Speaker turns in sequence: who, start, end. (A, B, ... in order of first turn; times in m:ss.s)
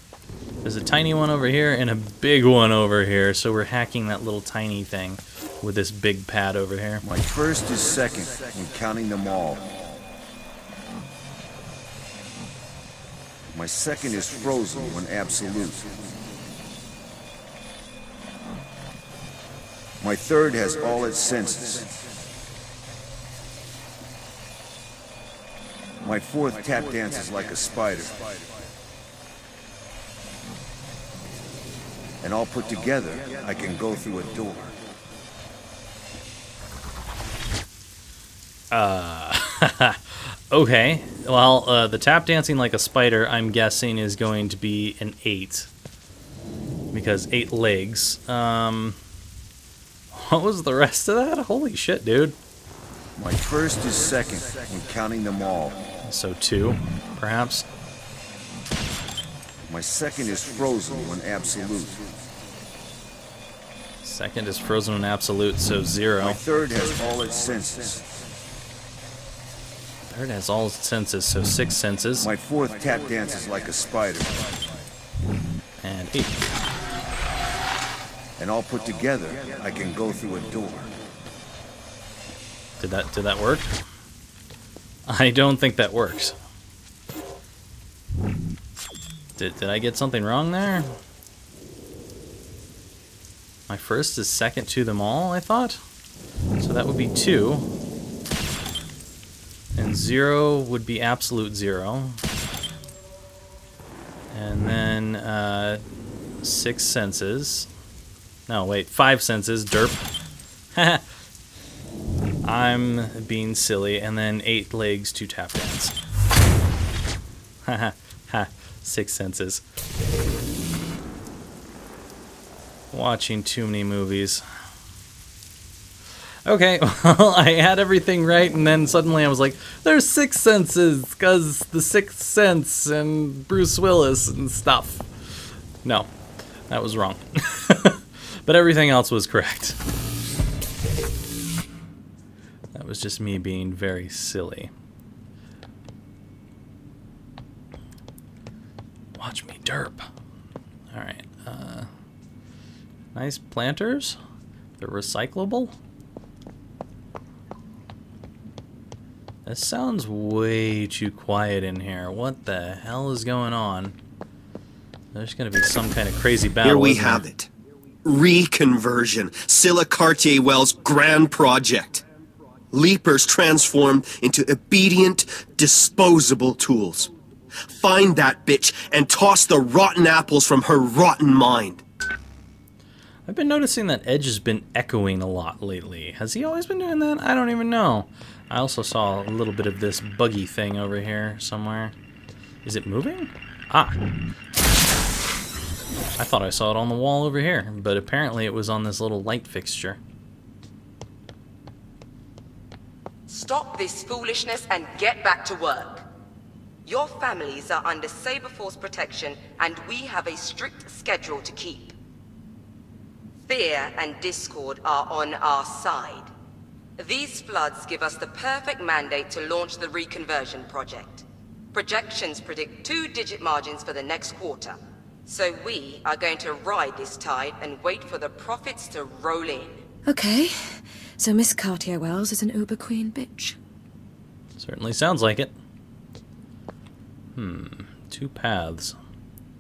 0:00.6-0:07.0 A
0:07.0-0:09.7 B
0:13.5-0:16.0 B
0:20.0-0:22.0 B
0:26.0-0:28.4 B
0:32.2-0:34.7 B
0:38.7-0:45.7 A
0:46.9-0:49.0 A
0:50.1-0:52.4 A
0:53.2-0:55.8 B
0:56.1-0:57.7 A
0:59.7-1:02.0 B
1:04.0-1:06.4 A
1:06.2-1:08.1 B
1:10.1-1:12.3 A
1:12.2-1:14.6 B
1:15.8-1:16.4 A
1:18.4-1:20.9 B
1:22.8-1:23.7 A
1:25.1-1:26.4 A
1:29.4-1:30.9 A
1:33.7-1:35.8 A
1:36.6-1:37.7 A
1:39.8-1:42.2 A
1:44.3-1:45.8 A
1:46.4-1:47.7 A
1:48.5-1:50.0 A
1:50.7-1:51.0 A
1:52.4-1:55.9 A
1:57.6-1:59.6 A
2:02.9-2:04.4 A
2:06.5-2:16.1 A
2:16.7-2:19.8 A
2:22.7-2:24.7 A
2:29.2-2:30.0 A
2:30.9-2:31.9 A
2:33.2-2:34.2 A
2:34.8-2:35.8 A
2:39.5-2:44.0 A
2:45.1-2:47.3 A
2:46.6-2:47.5 C
2:48.1-2:52.0 C
2:52.7-2:57.1 C
2:57.8-3:01.8 C
3:03.3-3:11.9 A
3:12.6-3:14.0 A
3:16.2-3:20.0 A
3:23.3-3:26.1 D
3:26.9-3:32.0 D
3:33.5-3:36.3 D
3:37.0-3:49.8 D
3:50.1-3:53.6 E
3:54.6-3:55.5 A
3:57.4-3:59.0 A